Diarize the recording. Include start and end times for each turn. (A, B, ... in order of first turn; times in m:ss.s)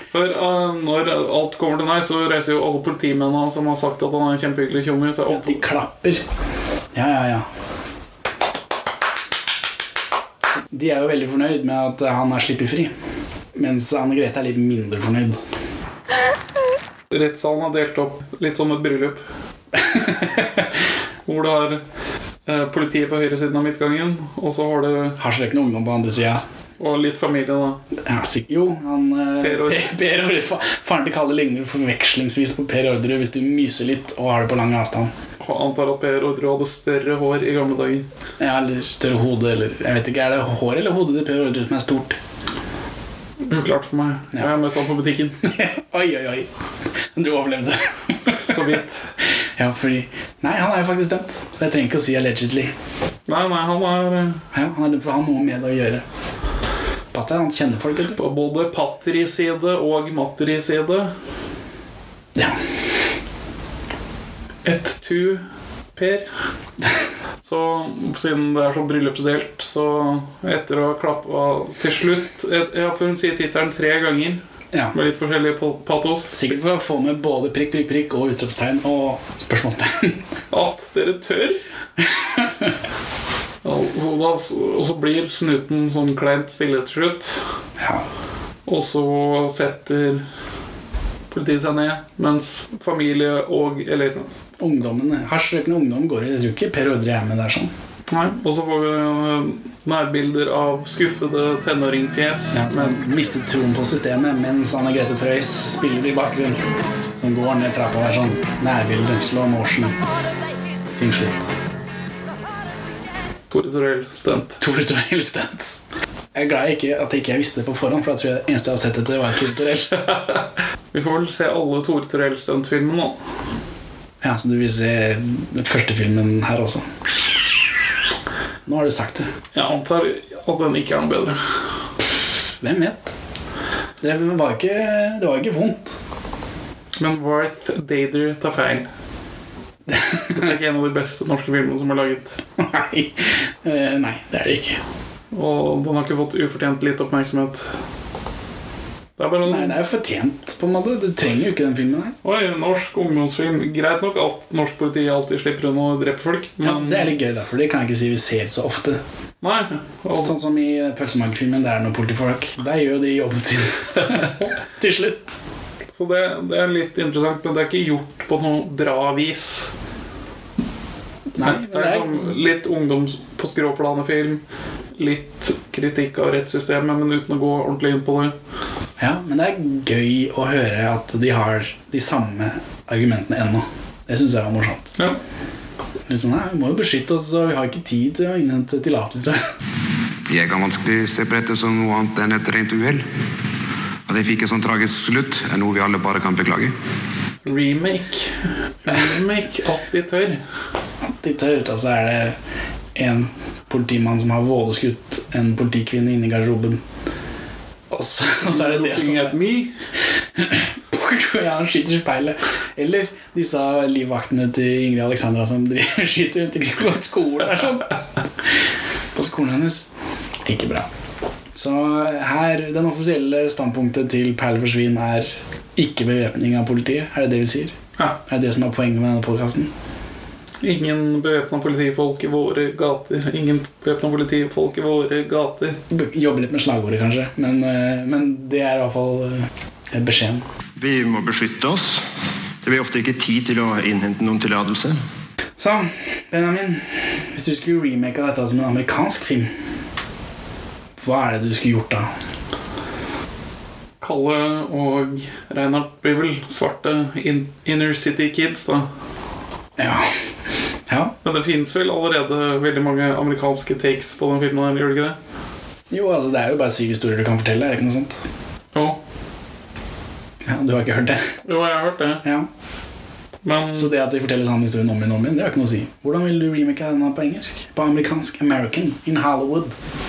0:00.1-0:05.6 A
0:05.3-0:06.2 B
0:06.9-0:07.5 B
0:10.7-0:12.9 B
0:13.5-0:15.4 B
0:17.1-0:19.2 A
0:19.8-0:20.7 B
0:21.2-0:21.8 A
0:22.4-0:25.2 A
0:25.2-0:26.4 B
0:26.8-0:27.8 A
0:28.0-0:35.1 B
0:29.4-0:29.9 A
0:35.4-0:38.1 A
0:38.4-0:42.2 B
0:43.4-0:45.4 A
0:45.4-0:46.5 B
0:47.1-0:48.8 B
0:48.4-0:49.1 A
0:49.6-0:52.7 B
0:53.3-0:54.4 A
0:54.5-0:56.0 B
0:57.1-0:58.2 B
0:58.1-1:01.1 A
1:04.6-1:05.4 A
1:05.9-1:06.3 A
1:07.4-1:14.4 A
1:14.9-1:16.6 A
1:16.3-1:20.2 B
1:20.5-1:21.6 A
1:22.2-1:22.7 B
1:23.6-1:27.4 A
1:27.8-1:28.0 B
1:28.6-1:30.2 A
1:31.3-1:34.3 A
1:34.6-1:37.7 B
1:38.1-1:43.0 A
1:42.5-1:46.6 B
1:47.2-1:50.0 B
1:50.9-1:51.5 B
1:53.5-1:54.6 A
1:54.6-1:55.8 B
1:56.3-2:00.0 B
2:00.0-2:03.2 A
2:04.2-2:06.8 B
2:08.6-2:09.3 B
2:09.5-2:11.6 A
2:12.6-2:13.1 B
2:14.0-2:16.0 B
2:17.0-2:18.9 A
2:19.9-2:20.5 B
2:20.3-2:22.4 A
2:22.6-2:24.8 B
2:25.3-2:27.7 A
2:29.2-2:29.8 A
2:29.4-2:32.2 B
2:32.2-2:37.2 A
2:36.6-2:39.0 B
2:39.4-2:40.3 A
2:40.1-2:45.4 B
2:44.1-2:44.5 A
2:45.9-2:49.7 A
2:51.4-2:52.4 B
2:51.4-2:54.4 A
2:54.9-2:58.4 A
2:59.0-3:04.9 B
3:06.1-3:09.4 B
3:10.3-3:13.0 C
3:14.1-3:16.7 C
3:17.4-3:20.4 A
3:21.0-3:22.4 B
3:22.9-3:26.8 B
3:27.9-3:29.4 B
3:28.4-3:29.7 A
3:30.4-3:38.0 B
3:39.1-3:39.9 B
3:40.4-3:40.9 B
3:41.5-3:49.7 B
3:50.6-3:55.8 A
3:55.9-4:00.4 B
4:00.8-4:02.0 D
4:02.6-4:05.0 D
4:05.6-4:09.5 B
4:11.0-4:12.1 B
4:14.0-4:18.9 A
4:19.8-4:20.1 B
4:20.9-4:21.1 B
4:21.2-4:25.2 A
4:25.9-4:28.2 B
4:28.7-4:29.0 A
4:30.4-4:31.3 B
4:31.4-4:32.2 A
4:33.4-4:33.9 A
4:33.7-4:39.7 B